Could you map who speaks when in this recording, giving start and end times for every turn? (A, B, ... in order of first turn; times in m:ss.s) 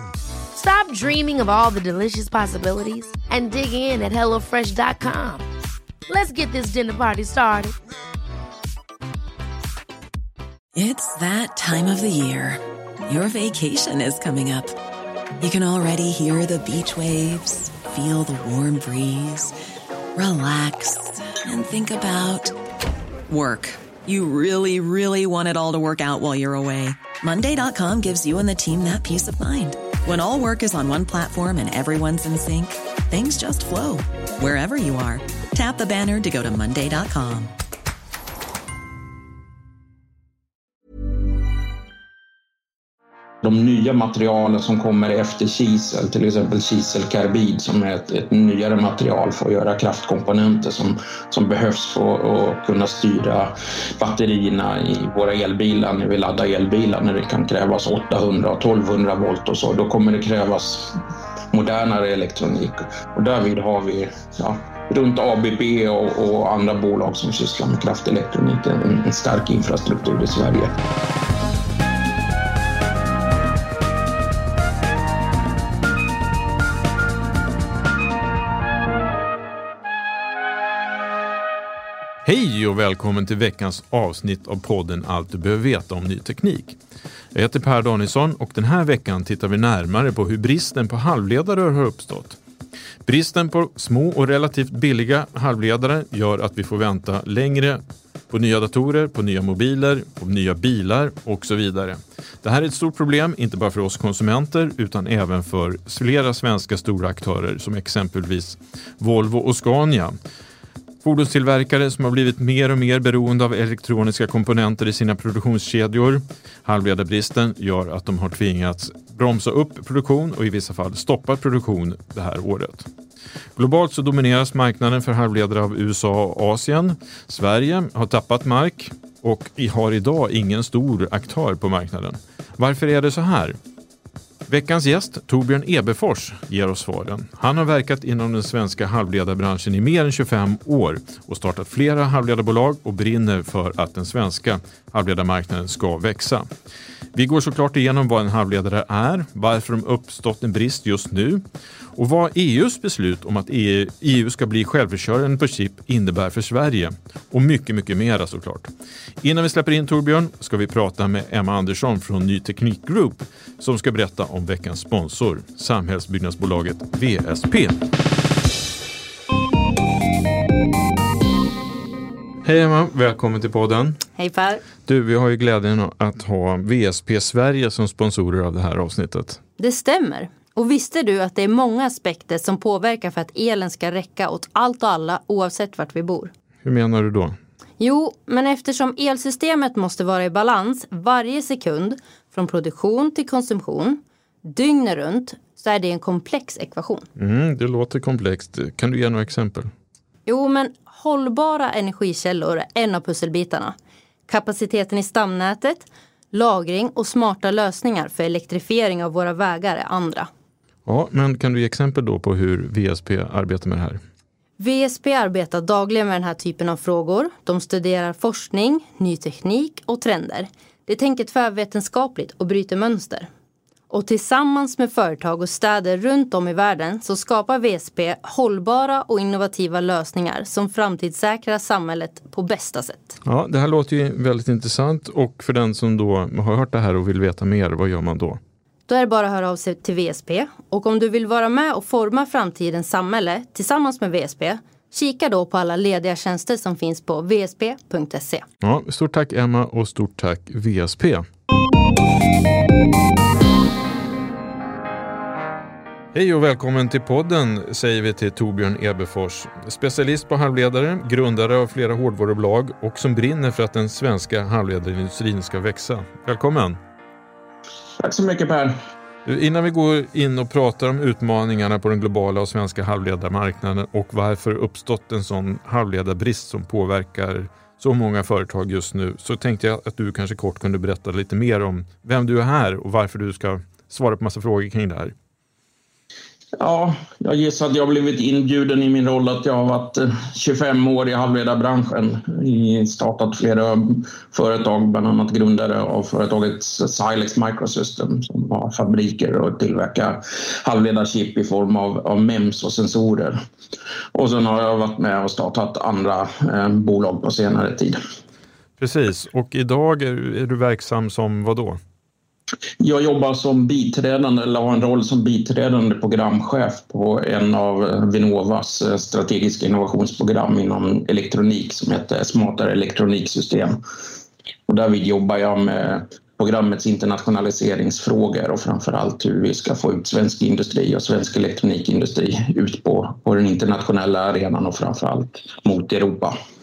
0:00.5-0:05.5 A
0:06.1-0:07.8 A
0:10.8-0:14.8 B
0:15.4-0:19.5 B
0:20.2-0:22.6 B
0:23.3-0:37.5 B
0:43.4-1:10.8 C
1:22.2-1:26.8 D
1:27.3-1:32.4 D
1:33.1-1:50.2 D
1:51.0-2:02.9 D
2:03.6-2:13.6 D
2:14.5-2:26.5 D
2:27.1-2:31.4 D
2:32.0-2:38.7 D
2:39.2-2:47.8 D
2:52.4-2:54.0 D
2:54.2-2:54.6 E
2:54.9-2:59.4 D
2:59.6-3:06.3 E
3:06.6-3:07.4 D
3:07.8-3:17.1 E
3:17.2-3:19.7 D
3:20.3-3:23.8 E
3:24.3-3:30.3 E
3:30.9-3:34.0 D
3:34.6-3:43.3 E
3:43.9-3:53.2 E
3:53.2-3:58.4 D
3:58.9-4:08.4 E
4:08.6-4:11.3 D
4:16.1-4:26.8 D
4:28.0-4:28.8 C
4:29.2-4:45.1 D
4:46.6-5:03.4 C
5:04.1-5:08.0 C
5:08.8-5:11.8 D
5:12.8-5:23.8 C
5:24.7-5:36.4 C